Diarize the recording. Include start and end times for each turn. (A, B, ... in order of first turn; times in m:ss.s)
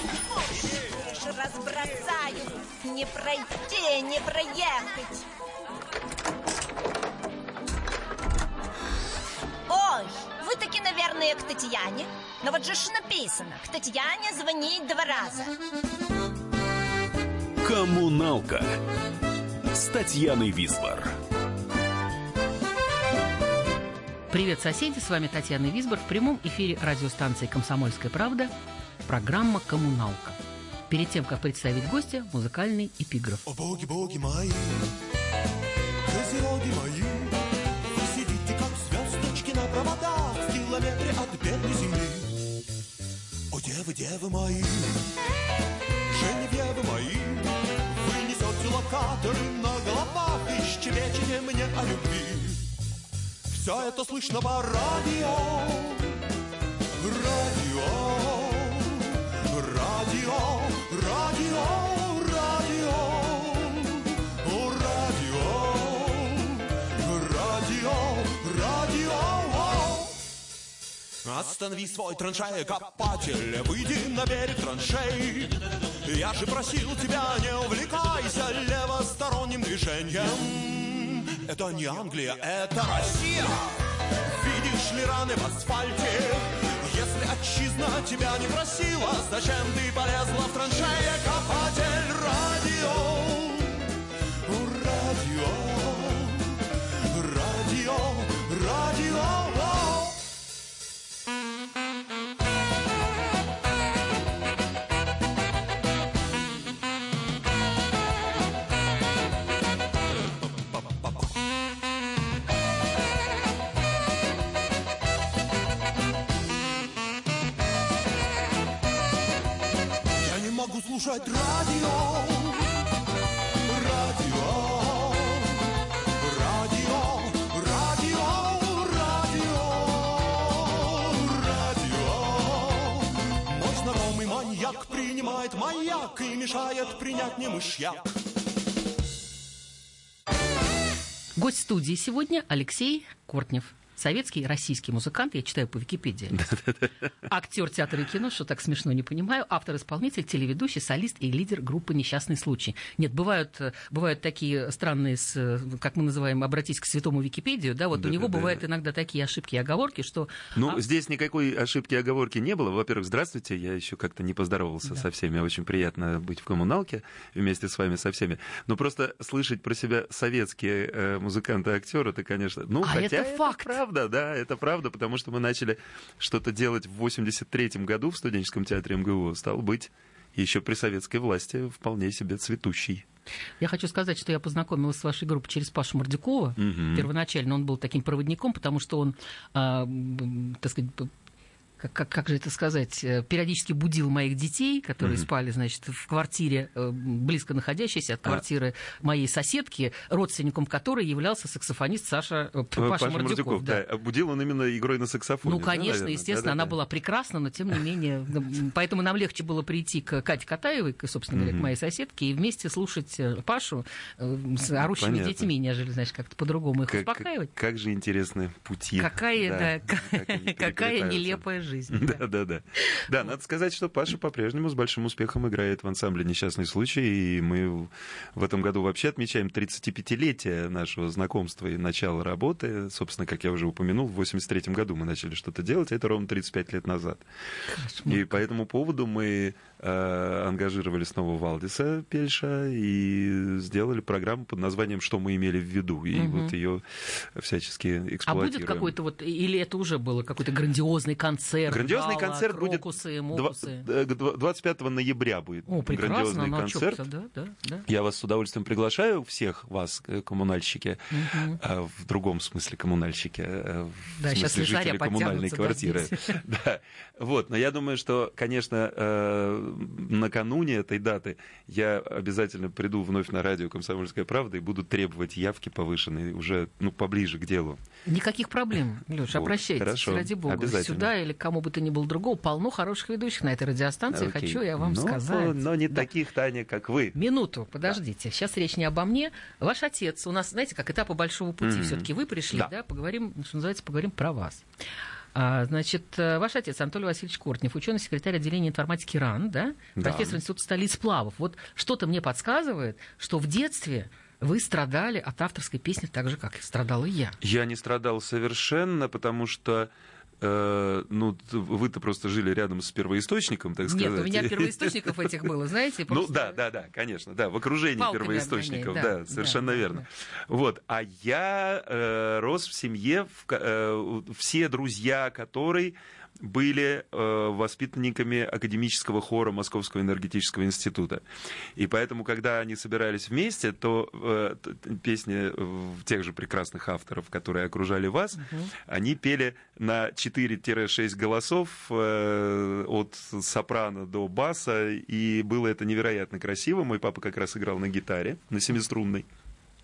0:00.6-0:05.3 A
0:09.7-0:15.5 A
0:17.6-0:18.8 B
0:19.7-0:21.2 B
0:24.3-0:28.5 C
0:29.0-0:30.4 C
0:30.9-0:33.4 C
0:33.5-0:34.8 D
0:36.1-0:37.3 D
0:38.0-0:42.3 D
0:43.5-0:45.0 D
0:46.1-0:52.6 D
0:53.5-0:56.0 D
0:57.1-0:59.0 D
0:59.5-1:03.8 D
1:04.7-1:06.3 D
1:07.4-1:10.1 D
1:11.2-1:23.7 D
1:24.4-1:33.7 D
1:34.7-1:36.4 D
1:37.4-1:40.0 D
2:00.6-2:02.5 D
2:04.3-2:05.2 D
2:06.8-2:10.4 D
2:11.6-2:13.0 D
2:13.6-2:18.0 D
2:21.4-2:26.5 C
2:26.3-2:27.1 E
2:27.2-2:40.8 C
2:37.9-2:38.6 E
2:40.5-3:03.0 E
2:52.8-2:53.8 C
3:03.6-3:11.1 C
3:06.6-3:07.1 E
3:11.8-3:23.8 C
3:15.0-3:15.3 E
3:22.8-3:26.8 E
3:25.4-3:37.5 C
3:31.3-3:31.7 E
3:34.8-3:35.5 E
3:36.9-3:57.2 E
3:39.0-3:42.2 C
3:57.7-3:58.4 C
3:58.0-4:09.0 E
4:06.1-4:06.5 C
4:08.3-4:13.8 C
4:11.7-4:17.0 E
4:15.7-4:17.8 C
4:17.9-4:37.8 E
4:21.1-4:21.6 C
4:24.2-4:26.4 C
4:38.1-4:46.1 C
4:39.3-4:41.1 E
4:44.1-4:47.2 E
4:47.1-4:54.6 C
4:51.6-4:52.7 E
4:55.3-5:07.4 C
5:00.0-5:00.4 E
5:07.4-5:15.3 E
5:13.8-5:16.6 C
5:16.1-5:31.2 E
5:18.0-5:20.0 C
5:31.8-5:49.2 E
5:38.4-5:38.7 C